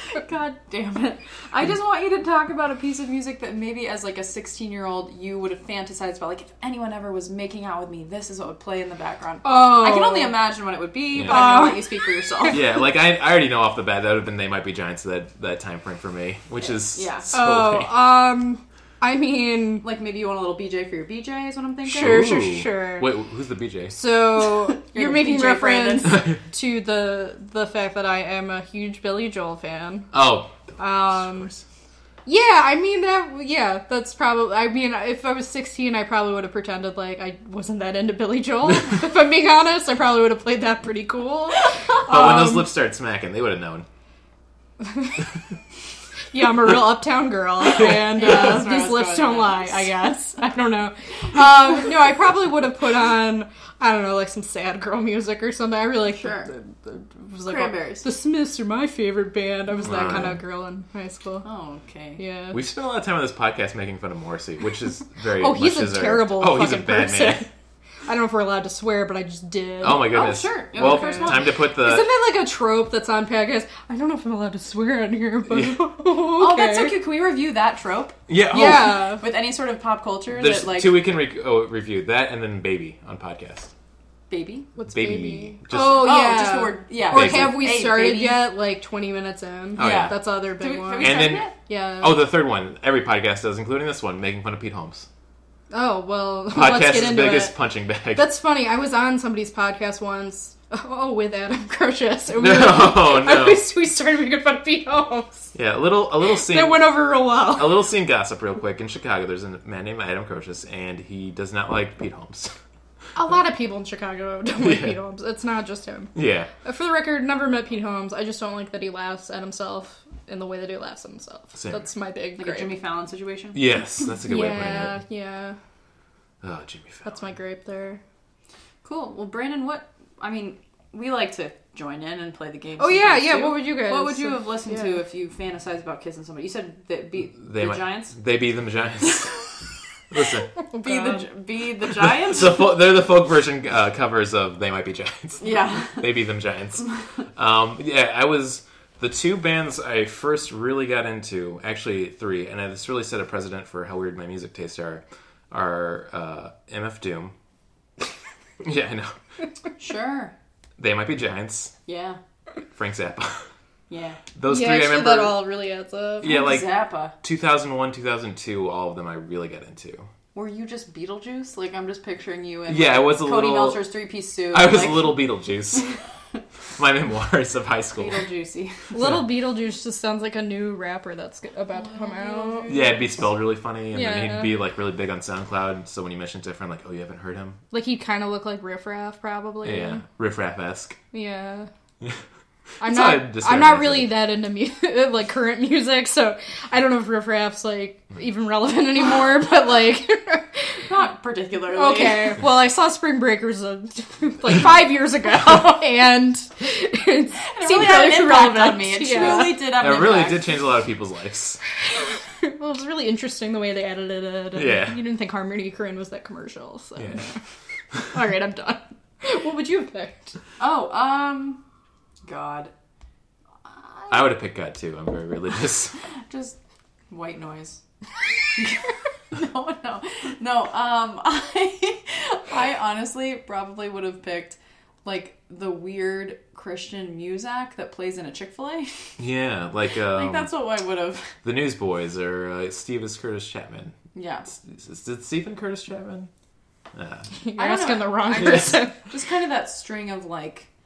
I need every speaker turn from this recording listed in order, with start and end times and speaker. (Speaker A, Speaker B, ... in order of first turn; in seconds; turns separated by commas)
Speaker A: 0.1-12.6, Speaker B: 9.4-10.4, Speaker C: 11.2-11.5, Speaker B: 11.2-12.6, Speaker C: 12.5-18.0, Speaker A: 16.8-17.3, Speaker B: 17.3-19.9, Speaker A: 19.8-22.3, Speaker C: 21.9-24.0, Speaker B: 21.9-23.1, Speaker B: 23.9-30.1, Speaker A: 24.7-26.3, Speaker C: 30.1-31.6, Speaker B: 30.8-31.5, Speaker B: 32.3-42.7, Speaker C: 42.1-43.9, Speaker B: 46.3-61.5, Speaker A: 47.9-49.8, Speaker A: 56.1-56.5, Speaker A: 57.5-58.1, Speaker C: 59.8-60.4, Speaker A: 61.4-62.2, Speaker B: 62.2-62.6, Speaker C: 62.5-67.5, Speaker B: 65.4-67.5, Speaker B: 68.1-77.0, Speaker C: 69.8-72.1, Speaker A: 70.1-71.5, Speaker C: 75.5-75.8, Speaker A: 76.4-81.0, Speaker C: 78.3-79.0, Speaker B: 78.5-79.2, Speaker C: 80.3-83.7, Speaker A: 84.3-84.7, Speaker B: 84.8-92.2, Speaker C: 84.9-86.2, Speaker A: 85.7-88.4, Speaker C: 87.1-87.6, Speaker C: 89.8-90.2, Speaker A: 89.8-91.5, Speaker C: 91.0-95.1, Speaker B: 95.7-97.6, Speaker C: 96.5-98.3, Speaker B: 98.1-105.5, Speaker C: 102.4-103.7, Speaker C: 105.5-112.5, Speaker B: 106.4-107.8, Speaker B: 113.2-122.8, Speaker C: 114.6-115.0, Speaker C: 116.1-116.5, Speaker C: 121.5-121.9, Speaker A: 122.4-123.6, Speaker C: 123.5-125.0, Speaker B: 124.2-125.6, Speaker C: 126.4-127.3, Speaker B: 127.0-128.0, Speaker A: 128.8-138.2, Speaker B: 132.8-135.0, Speaker C: 137.4-139.4, Speaker C: 140.1-140.5, Speaker B: 140.7-141.3, Speaker A: 140.8-142.7, Speaker C: 142.0-157.3, Speaker A: 145.4-146.1, Speaker C: 158.6-159.1, Speaker A: 159.8-160.3, Speaker C: 160.8-161.7, Speaker A: 161.9-162.2, Speaker C: 162.7-163.5, Speaker A: 163.9-164.2, Speaker C: 164.4-165.5, Speaker B: 164.4-166.4, Speaker C: 166.2-170.1, Speaker A: 166.2-167.2, Speaker A: 170.3-175.8, Speaker C: 172.7-173.8, Speaker C: 174.5-175.9, Speaker C: 176.8-178.2, Speaker A: 177.9-178.8, Speaker B: 178.9-182.8, Speaker A: 181.8-183.1, Speaker C: 182.7-187.6, Speaker B: 183.9-184.6, Speaker B: 187.7-190.0, Speaker C: 189.6-191.0, Speaker B: 191.1-191.7, Speaker B: 192.8-200.9, Speaker C: 192.8-194.3, Speaker A: 200.9-202.4, Speaker B: 201.7-209.6, Speaker A: 207.6-210.5, Speaker C: 209.6-211.6, Speaker B: 211.9-217.4, Speaker C: 214.6-215.0, Speaker C: 217.0-217.2, Speaker B: 218.1-220.3, Speaker A: 220.6-221.6, Speaker A: 222.2-222.7, Speaker C: 224.1-225.9, Speaker A: 226.3-226.6, Speaker A: 227.1-227.8, Speaker A: 228.5-239.1, Speaker C: 239.2-240.5, Speaker A: 240.1-241.4, Speaker C: 241.4-244.0, Speaker A: 244.1-244.5, Speaker C: 244.5-246.3, Speaker C: 246.9-247.3, Speaker B: 247.4-249.0, Speaker A: 247.6-250.7, Speaker C: 248.4-248.8